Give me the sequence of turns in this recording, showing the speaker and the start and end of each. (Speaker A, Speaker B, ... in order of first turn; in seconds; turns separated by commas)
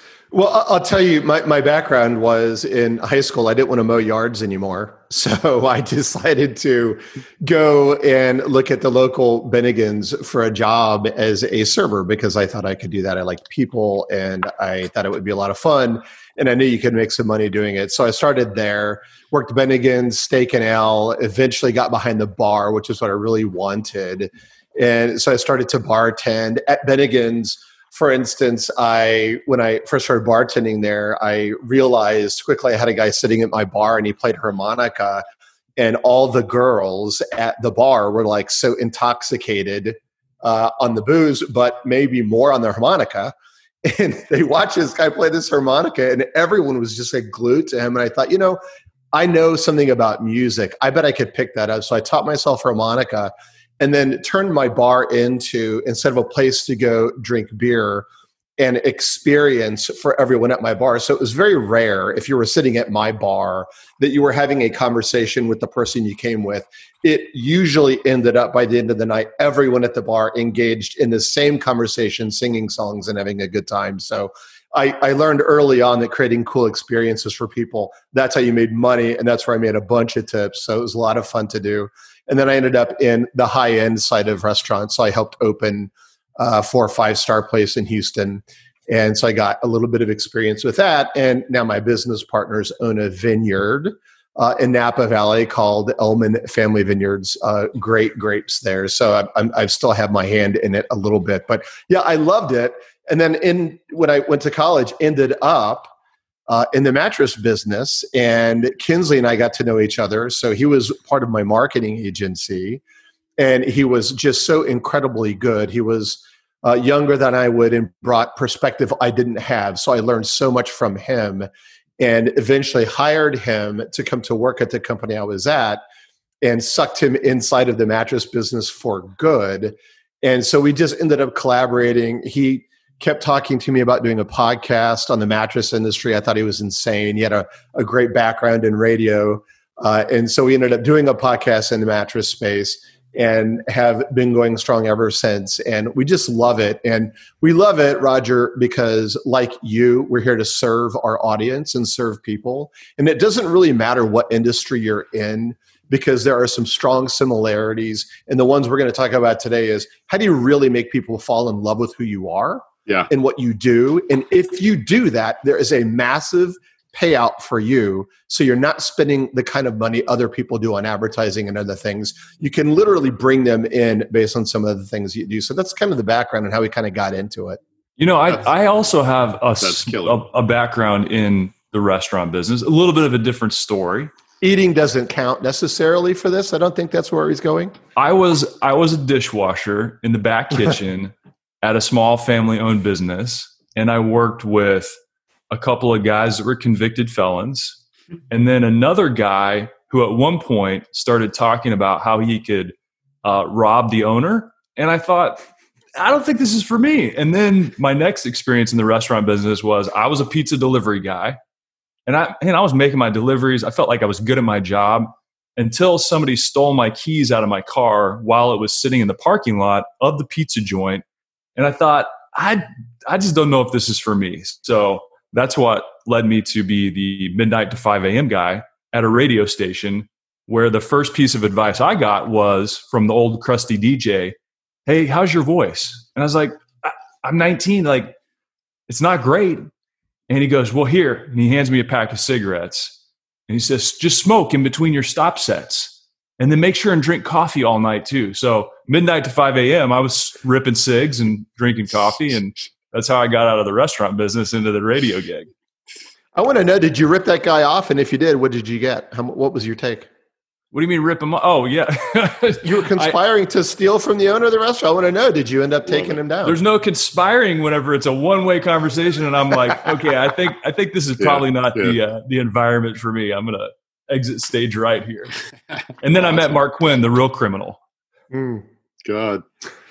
Speaker A: 0.3-35.2, Speaker A: 35.8-48.6, Speaker A: 49.1-58.1, Speaker A: 58.6-105.9, Speaker A: 106.5-112.8, Speaker A: 113.4-121.5, Speaker A: 122.0-125.8, Speaker A: 126.4-177.6, Speaker B: 178.0-184.1, Speaker C: 179.6-180.2, Speaker A: 184.4-187.8, Speaker B: 188.0-195.0, Speaker B: 195.5-205.4, Speaker B: 206.0-211.4, Speaker B: 212.1-221.0, Speaker B: 221.6-234.3, Speaker B: 234.9-238.2, Speaker B: 238.9-239.7, Speaker B: 240.3-243.0, Speaker B: 243.5-255.5, Speaker A: 256.4-260.1, Speaker B: 260.7-263.2, Speaker A: 262.6-266.6, Speaker C: 265.9-266.1, Speaker B: 266.4-275.4, Speaker C: 271.2-272.0, Speaker B: 276.0-277.8, Speaker A: 278.3-278.6, Speaker C: 279.1-279.4